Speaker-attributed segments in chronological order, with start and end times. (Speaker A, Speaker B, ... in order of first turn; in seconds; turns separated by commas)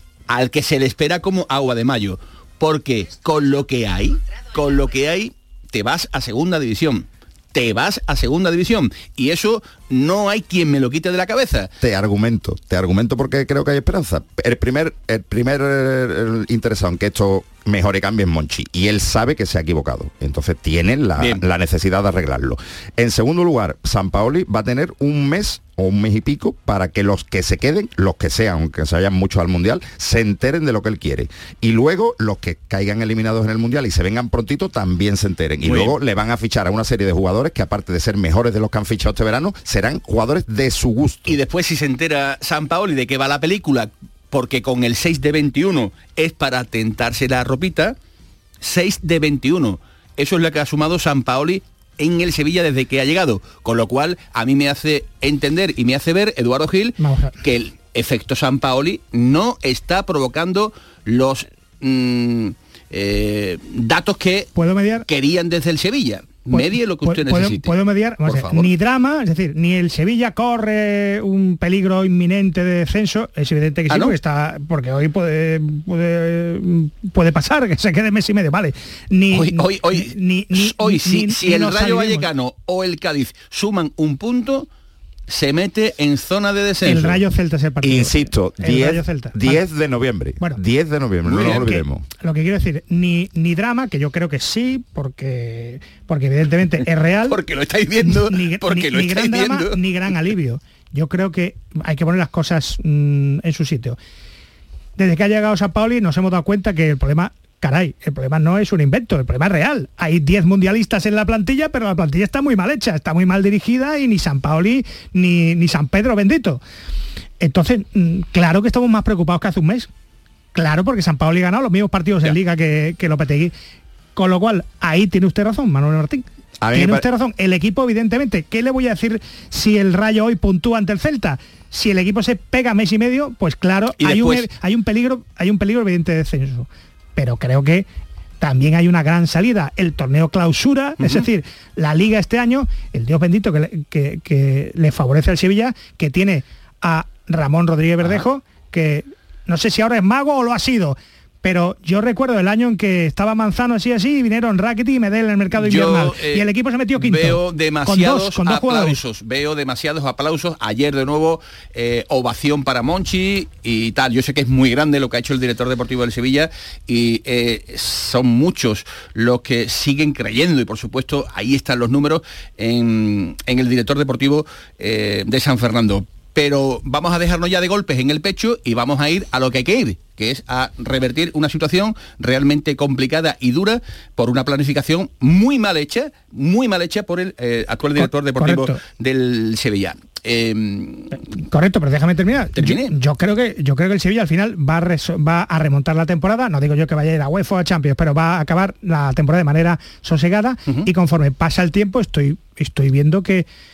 Speaker A: 0.3-11.7, Speaker B: 11.8-41.4, Speaker A: 35.6-35.9, Speaker A: 41.3-47.9, Speaker A: 48.6-64.5, Speaker C: 57.0-57.4, Speaker C: 64.5-65.0, Speaker A: 65.1-68.7, Speaker C: 66.5-82.3, Speaker A: 73.9-74.2, Speaker A: 79.3-84.7, Speaker A: 85.3-87.2, Speaker C: 86.8-89.6, Speaker B: 87.8-92.0, Speaker A: 91.2-91.7, Speaker C: 91.4-97.4, Speaker A: 97.3-100.1, Speaker C: 98.0-104.0, Speaker C: 105.0-116.6, Speaker C: 117.4-119.9, Speaker C: 120.5-123.5, Speaker C: 124.2-137.9, Speaker B: 126.6-127.0, Speaker A: 134.0-134.5, Speaker C: 138.4-159.0, Speaker A: 141.0-141.2, Speaker A: 155.5-191.2, Speaker C: 188.0-188.8, Speaker C: 191.2-203.5, Speaker A: 192.5-192.9